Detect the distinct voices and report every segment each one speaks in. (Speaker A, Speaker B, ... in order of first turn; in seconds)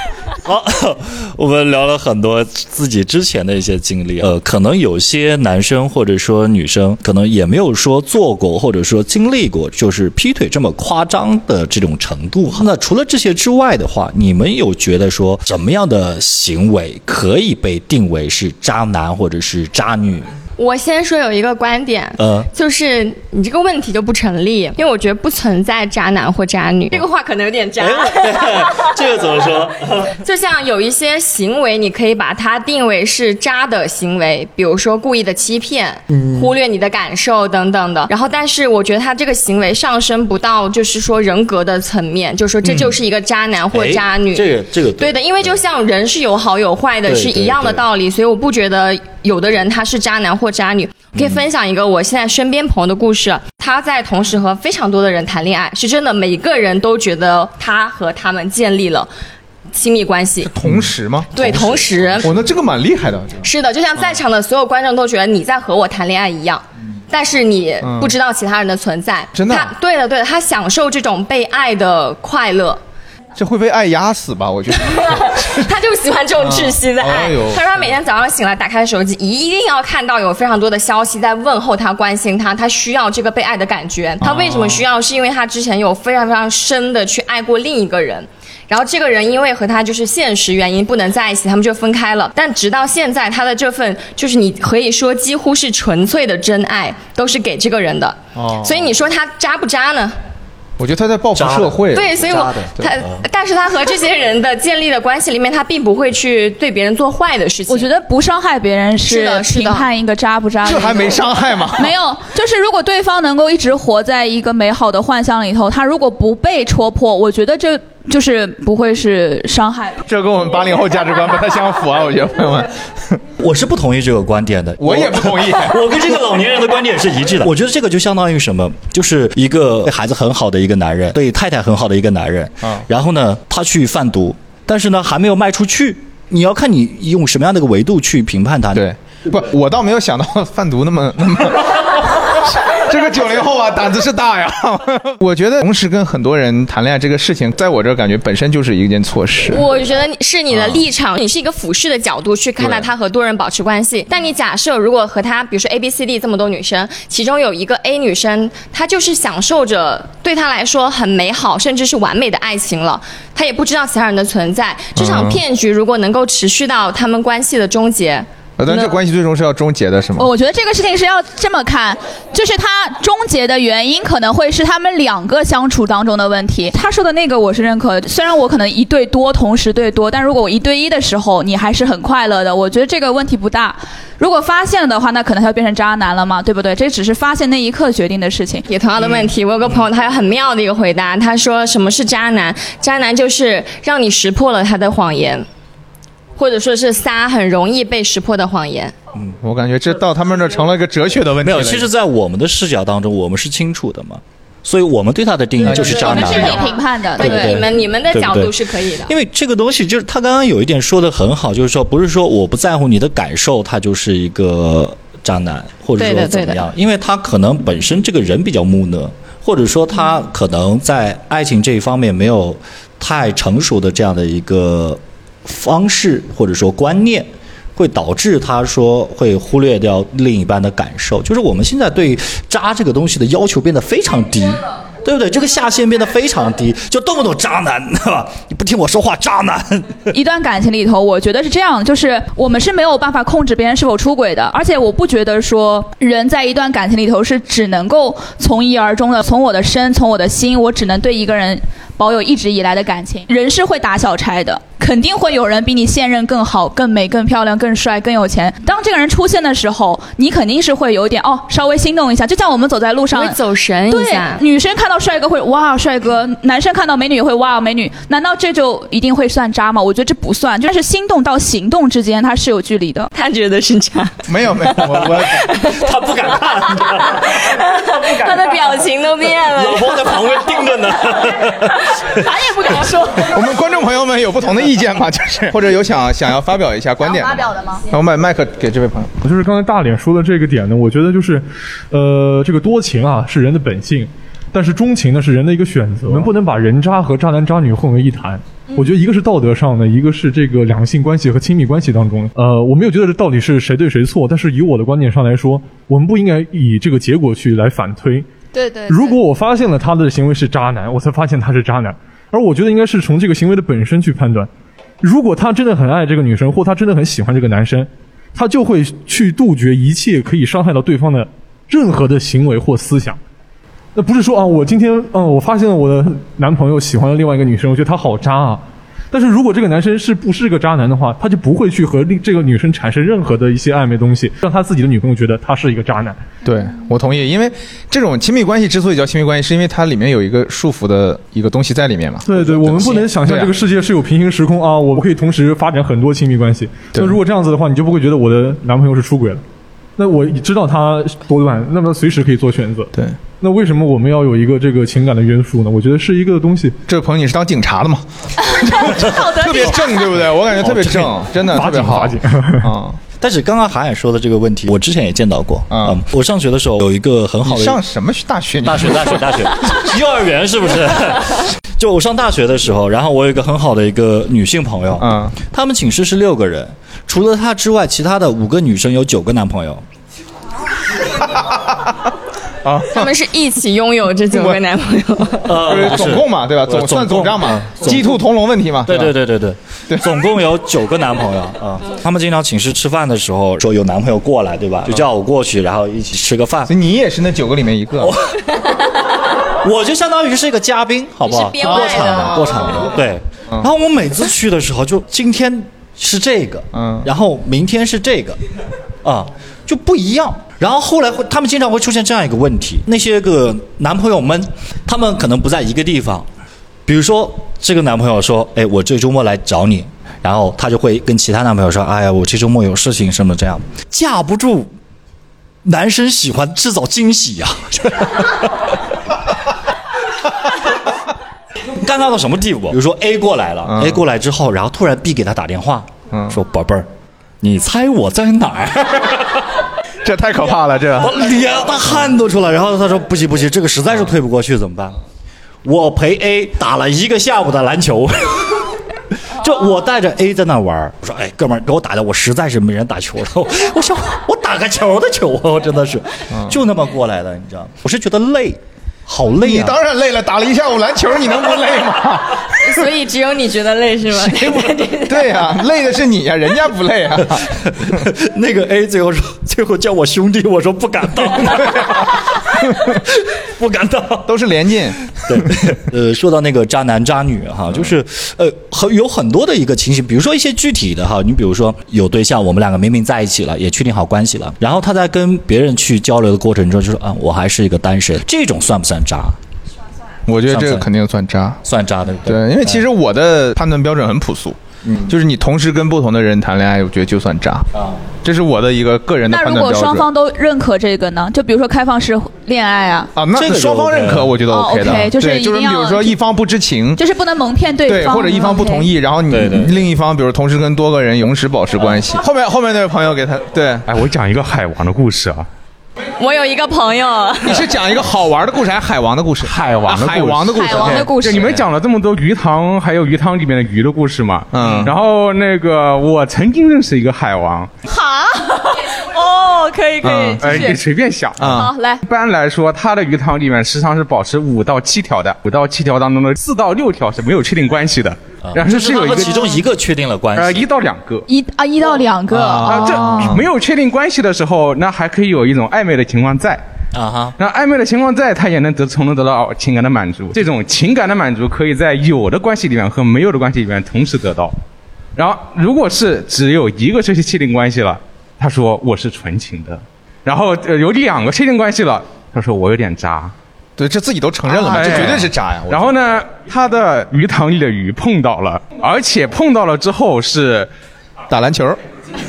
Speaker A: 0.4-20.3, 22.2-22.5, 27.8-30.1, 36.1-36.5, 42.6-43.0, 43.7-45.5, 47.1-47.8, 61.4-62.4, 101.3-103.2, 123.4-138.8, 201.4-208.5, 209.1-240.1, 275.8-277.4, 279.5-282.2, 360.5-361.2, 363.2-367.8, 368.6-379.8, 385.5-388.2, 388.9-396.7, 398.0-398.8, 399.5-408.4, 409.0-416.3, 416.9-424.7, 425.6-428.8, 431.7-436.9, 437.4-439.6, 441.0-445.0, 445.6-459.8, 467.4-474.3, 475.2-489.4, 490.5-490.9, 491.6-492.9, 497.7-498.0, 503.3-504.4, 509.3-509.8, 538.4-540.7, 542.9-543.4, 546.9-547.4
Speaker B: 20.6-28.9, 30.1-59.1, 59.7-60.6, 61.3-62.3, 63.4-72.8, 74.8-100.2, 101.9-107.9, 109.1-109.9, 149.5-169.0, 188.7-195.5, 196.4-198.9, 205.6-209.1, 216.0-216.6, 263.1-264.4, 273.1-275.8, 276.7-280.6, 308.6-309.2, 382.9-385.6, 401.3-402.9, 462.6-465.5, 516.2-517.7
Speaker C: 60.5-61.3, 62.2-63.4, 67.8-68.1, 69.3-69.7, 73.4-75.5, 76.4-77.9, 84.2-84.8, 98.4-98.7, 100.8-102.2, 110.6-111.9, 120.1-123.2, 124.8-126.0, 138.8-149.6, 152.6-152.9, 165.0-165.4, 168.6-170.3, 199.4-201.9, 205.7-206.0, 274.3-275.5, 283.3-289.1, 336.4-343.5, 356.9-363.0, 365.7-366.0, 367.4-369.8, 375.0-375.4, 381.2-381.9, 382.6-383.1, 385.6-389.2, 396.7-398.1, 402.0-402.5, 406.7-407.1, 433.7-434.0, 436.1-436.4, 440.0-441.1, 456.3-456.6, 459.4-462.5, 464.2-467.5, 474.3-475.6, 490.3-491.6, 492.3-497.7, 498.2-500.1, 503.2-507.0, 507.9-513.9, 517.4-521.2, 524.5-524.9, 530.0-530.7, 531.4-531.7, 542.3-543.4, 563.8-566.0, 571.3-571.8
Speaker D: 107.7-111.2, 111.7-120.0, 170.2-188.7, 206.2-207.6, 240.1-263.4, 263.9-273.1, 282.4-283.3, 287.0-287.8, 358.4-360.0, 499.3-503.1, 504.5-506.2, 507.0-508.9, 520.5-521.5, 527.9-530.8, 531.5-532.0, 541.3-543.4
Speaker E: 289.2-308.3, 308.9-314.5, 315.0-323.2, 323.9-336.2, 342.2-349.4, 350.0-356.8, 361.4-362.7
Speaker F: 513.9-515.5, 519.4-527.7, 530.4-539.6, 540.4-541.3, 542.6-546.6, 547.4-554.5, 555.2-563.3, 564.5-570.7